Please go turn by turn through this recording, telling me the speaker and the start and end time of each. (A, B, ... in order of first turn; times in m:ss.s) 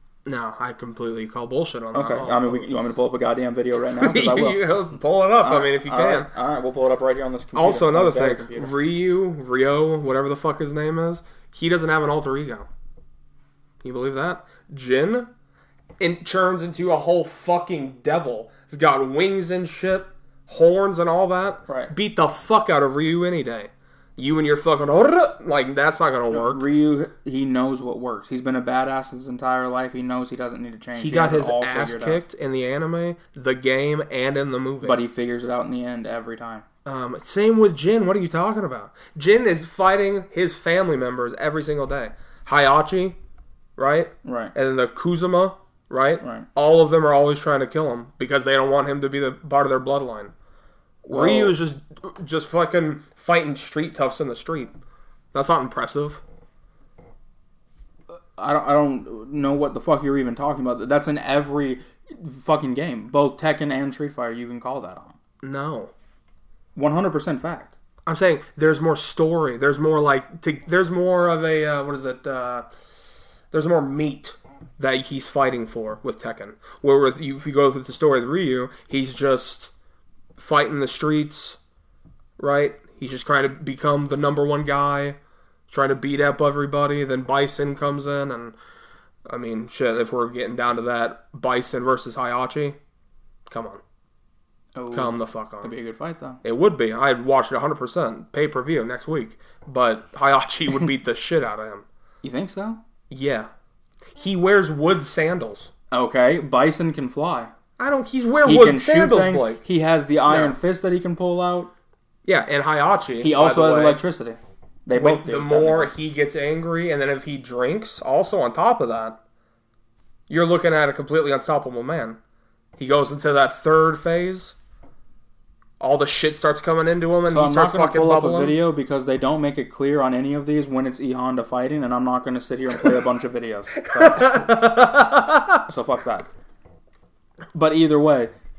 0:00.2-0:02.7 A
0:01.9-0:04.6 B
0:03.8-0:06.3 A
0:05.4-0:08.7 B
0:07.5-0:12.7 A
0:13.8-0:15.3 A
0:16.0-0:26.6 A
0:21.7-0:21.9 B
0:26.3-0:32.2 B
0:31.0-0:35.0 A
0:34.8-0:36.6 B
0:36.8-0:43.2 A
0:43.8-0:50.3 A
0:44.2-0:44.5 B
0:46.2-0:46.4 B
0:51.0-0:51.5 B
0:51.0-0:54.7 A
0:55.3-0:56.2 A
0:58.4-1:05.2 B
1:05.4-1:05.9 A
1:06.7-1:07.7 B
1:08.0-1:12.7 A
1:13.5-1:19.7 A
1:20.4-1:21.6 A
1:22.4-1:25.2 A
1:25.7-1:28.6 A
1:29.2-1:32.8 A
1:33.5-1:33.8 A
1:34.8-1:36.4 B
1:34.9-1:35.7 A
1:36.4-1:41.8 A
1:42.2-1:42.8 B
1:43.1-1:43.5 A
1:44.2-1:45.7 A
1:45.9-1:47.5 B
1:47.8-1:49.6 A
1:48.4-1:51.7 B
1:50.3-1:50.6 A
1:52.2-1:54.0 A
1:53.2-1:55.9 B
1:54.9-1:59.2 A
2:00.3-2:02.2 A
2:02.8-2:04.6 A
2:05.8-2:08.6 A
2:07.3-2:14.4 B
2:13.9-2:15.6 A
2:15.7-2:16.3 B
2:17.5-2:18.3 B